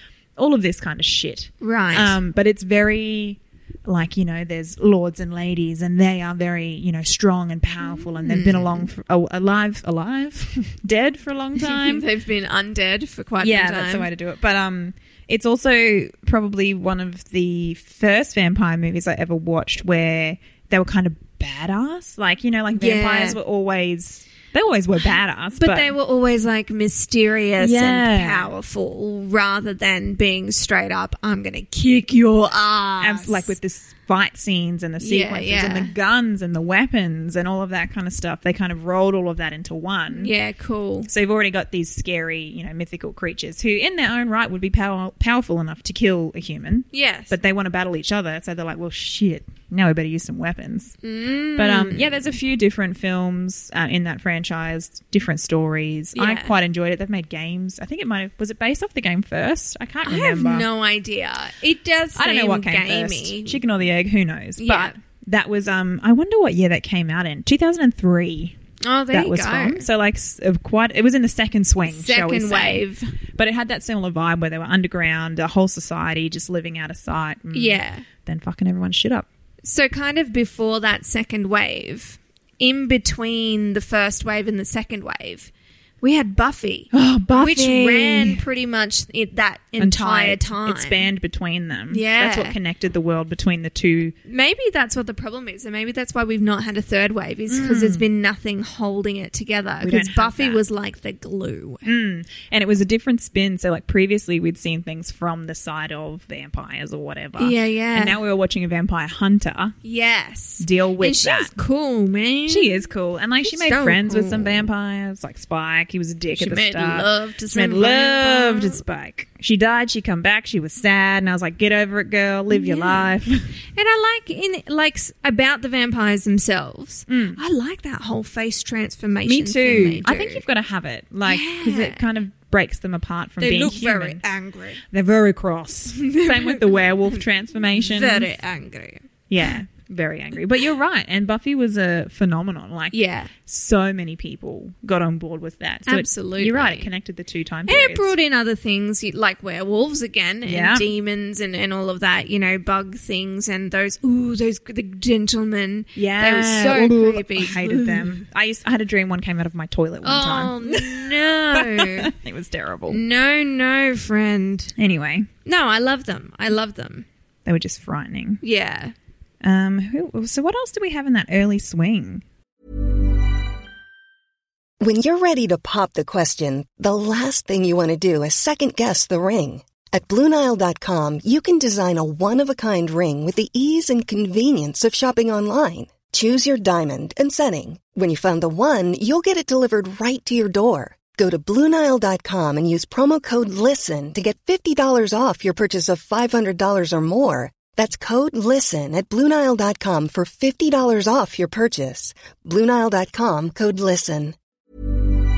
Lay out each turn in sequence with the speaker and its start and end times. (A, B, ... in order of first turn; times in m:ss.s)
0:00.4-0:12.0 A
0:01.6-0:02.2 B
0:08.0-0:08.9 B
0:11.6-0:14.1 B
0:13.4-0:25.9 A
0:22.7-0:23.4 B
0:25.6-0:33.6 B
0:27.6-0:28.5 A
0:33.0-0:40.3 A
0:35.0-0:35.9 B
0:40.1-0:41.1 B
0:41.1-0:51.0 A
0:46.9-0:47.3 B
0:51.0-0:52.2 B
0:51.6-1:00.7 A
0:56.2-0:56.5 B
1:00.0-1:03.6 B
1:02.2-1:08.6 A
1:04.6-1:05.0 B
1:08.8-1:09.9 B
1:09.1-1:12.8 A
1:11.9-1:13.1 B
1:13.4-1:19.3 A
1:17.5-1:18.1 B
1:19.6-1:25.5 B
1:26.0-1:31.1 B
1:26.9-1:28.4 A
1:29.8-1:34.2 A
1:31.9-1:32.6 B
1:34.3-1:41.8 B
1:37.5-1:38.0 A
1:39.8-1:40.6 A
1:41.8-1:49.8 A
1:47.4-1:48.2 B
1:49.8-1:52.8 B
1:50.6-1:51.5 A
1:52.5-2:03.5 A
1:53.4-1:54.7 B
1:56.4-1:58.8 B
2:02.5-2:03.1 B
2:03.7-2:10.4 B
2:07.1-2:07.4 A
2:09.3-2:14.2 A
2:11.2-2:12.0 B
2:13.4-2:14.8 B
2:14.9-2:18.3 A
2:15.9-2:17.2 B
2:17.8-2:19.0 B
2:19.3-2:28.1 A
2:22.9-2:23.3 B
2:25.9-2:26.9 B
2:27.7-2:38.2 B
2:30.4-2:30.9 A
2:36.0-2:43.0 A
2:40.0-2:42.1 B
2:42.9-2:44.7 B
2:44.8-2:45.3 A
2:45.4-2:47.1 B
2:47.5-2:48.4 A
2:48.4-2:48.9 B
2:49.4-2:52.2 A
2:54.8-3:24.4 C